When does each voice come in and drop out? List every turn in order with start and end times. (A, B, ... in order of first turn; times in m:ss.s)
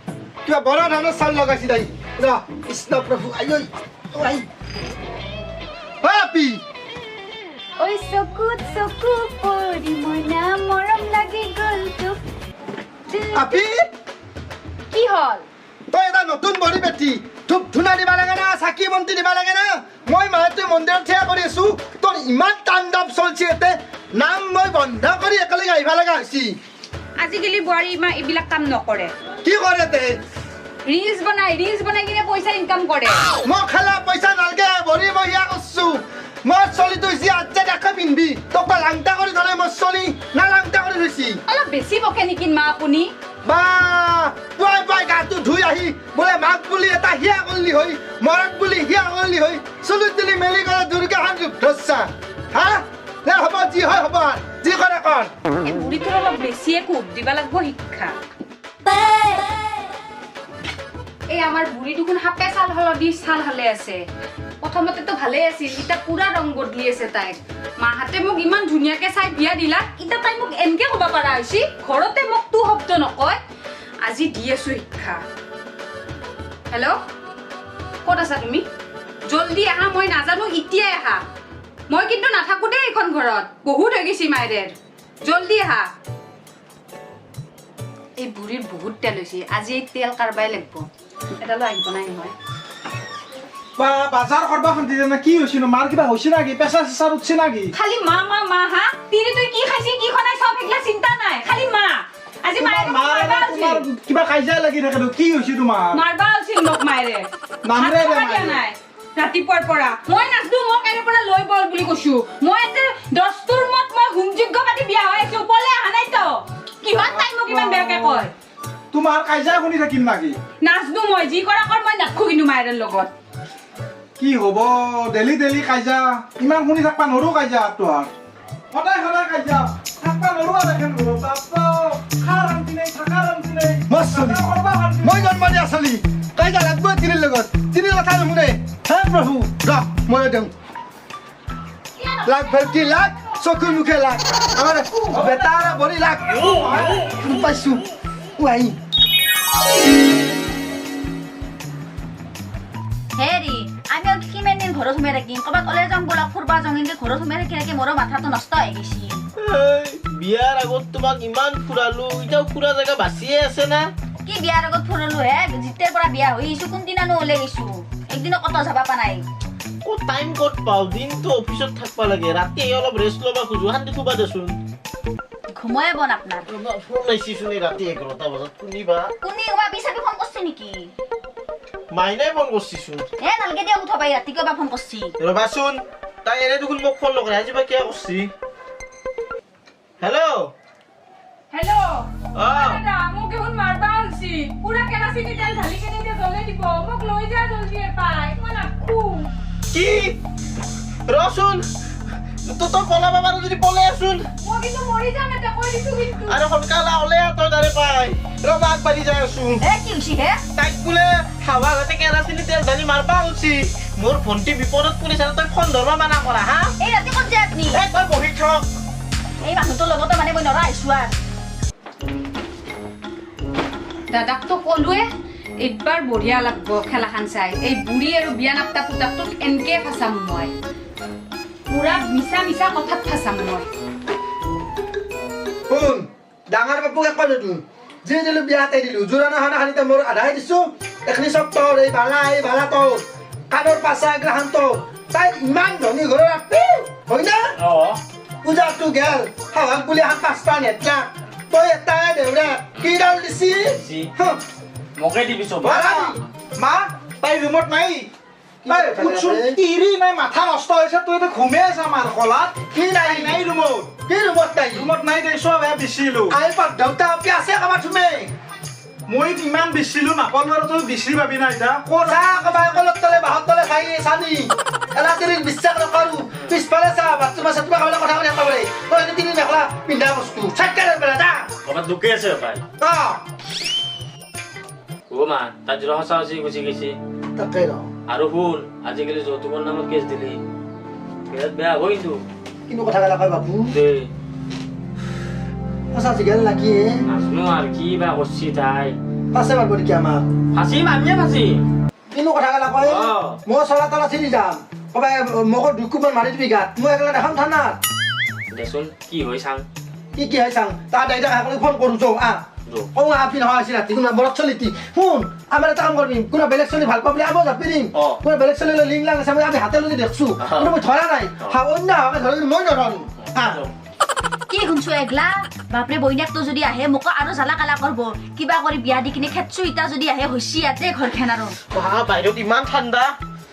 0:00.4-0:04.5 A
0:06.0-0:06.6 A
0:07.8-0:12.2 B
0:13.1-0:13.5 B
0:13.3-0:13.9 A
0:14.9-0:15.4 B
0:15.9-0:26.6 A
0:27.2-0:29.2 B
0:29.4-0:30.2 A
0:30.9-0:33.3 B
0:33.4-0:41.4 A
0:41.5-0:43.1 B
0:43.4-0:55.3 A
0:55.6-0:58.2 B
1:01.3-1:04.0 B
1:04.6-1:13.4 B
1:14.0-1:15.2 B
1:16.7-1:17.0 B
1:18.0-1:18.6 B
1:19.3-1:21.2 B
1:21.9-1:25.9 B
1:28.2-1:30.9 B
1:31.4-1:32.3 B
1:33.8-1:37.7 C
1:37.8-1:43.8 B
1:42.6-1:46.0 C
1:45.9-1:58.3 B
1:47.6-1:48.6 C
1:57.2-1:58.2 C
1:58.9-2:00.4 C
2:00.6-2:03.1 B
2:04.2-2:08.1 C
2:08.7-2:15.4 C
2:13.9-2:14.4 A
2:15.0-2:20.5 A
2:22.0-2:22.9 D
2:22.2-2:27.8 A
2:25.1-2:25.7 C
2:26.5-2:27.0 C
2:28.4-2:28.8 A
2:33.2-2:39.2 D
2:39.4-2:43.9 E
2:44.2-2:49.3 D
2:49.8-2:54.6 E
2:55.5-2:56.5 D
2:56.5-2:59.1 E
2:59.2-3:00.9 D
3:01.9-3:03.1 E
3:03.2-3:05.2 D
3:05.2-3:08.3 E
3:10.0-3:10.5 E
3:11.5-3:19.3 B
3:12.4-3:12.8 E
3:19.7-3:20.2 E
3:21.1-3:21.7 E
3:22.4-3:24.3 E
3:24.4-3:26.4 B
3:26.2-3:29.6 E
3:29.6-3:30.4 D
3:30.6-3:36.7 E
3:36.8-3:37.8 D
3:37.7-3:38.7 E
3:39.4-3:41.2 D
3:44.1-3:45.0 B
3:45.6-3:50.5 B
3:51.7-3:53.7 B
3:55.7-4:07.6 A
4:07.6-4:08.0 F
4:08.4-4:14.4 A
4:13.7-4:14.1 F
4:15.0-4:16.0 F
4:15.6-4:16.2 A
4:15.7-4:16.0 C
4:16.6-4:18.1 C
4:18.6-4:19.6 A
4:18.7-4:24.0 C
4:22.7-4:23.4 A
4:24.0-4:24.9 A
4:24.7-4:26.4 C
4:26.3-4:28.3 A
4:29.1-4:32.2 C
4:32.0-4:41.5 A
4:41.6-4:42.6 F
4:42.8-4:43.2 A
4:45.1-4:47.0 F
4:47.4-4:47.9 A
4:48.1-4:50.4 F
4:51.3-4:52.2 F
4:52.7-4:53.8 A
4:53.7-4:54.1 F
4:55.9-4:57.0 A
4:57.1-4:59.0 F
4:59.3-5:00.3 A
5:00.5-5:01.6 F
5:02.1-5:07.8 A
5:02.8-5:03.4 F
5:08.5-5:09.7 F
5:10.2-5:23.6 A
5:20.4-5:20.7 E
5:23.4-5:23.6 E
5:24.5-5:31.6 D
5:31.7-5:33.2 E